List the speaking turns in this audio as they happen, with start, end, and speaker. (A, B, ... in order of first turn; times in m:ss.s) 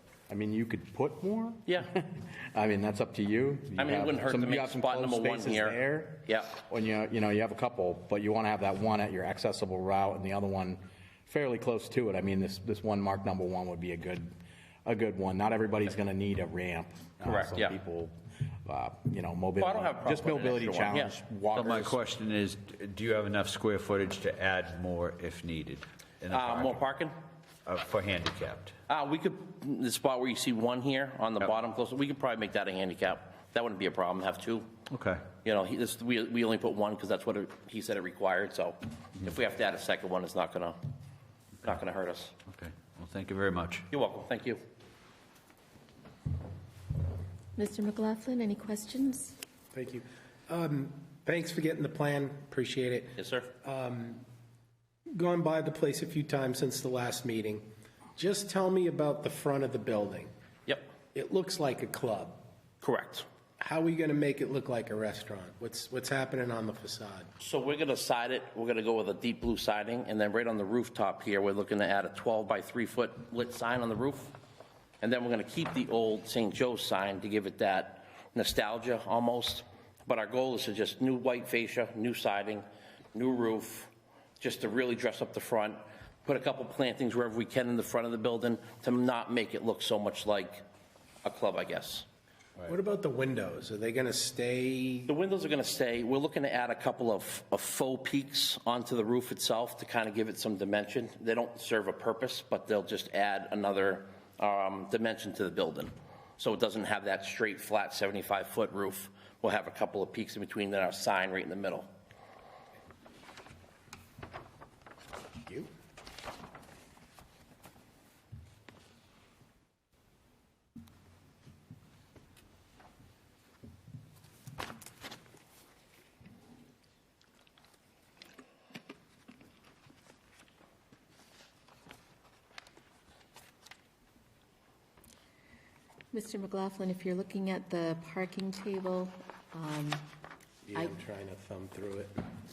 0:00.3-0:14.3 A
0:03.8-0:06.6 B
0:14.8-0:18.1 A
0:17.2-0:17.8 B
0:18.6-0:21.9 A
0:19.6-0:21.8 B
0:21.6-0:26.9 C
0:26.3-0:27.1 B
0:27.6-0:28.7 C
0:28.9-0:34.7 B
0:34.9-0:35.3 C
0:35.4-0:40.8 B
0:41.6-0:42.3 B
0:42.4-0:43.9 C
0:43.9-0:44.6 B
0:47.6-0:49.4 D
0:49.7-0:54.2 E
0:53.2-0:53.5 B
0:55.1-1:00.3 E
1:01.1-1:02.4 E
1:02.8-1:03.2 B
1:03.6-1:07.3 E
1:07.4-1:14.3 B
1:15.0-1:30.6 B
1:31.2-1:32.0 B
1:32.6-1:35.1 E
1:35.1-1:51.9 B
2:16.1-2:20.0 D
2:20.6-2:22.1 E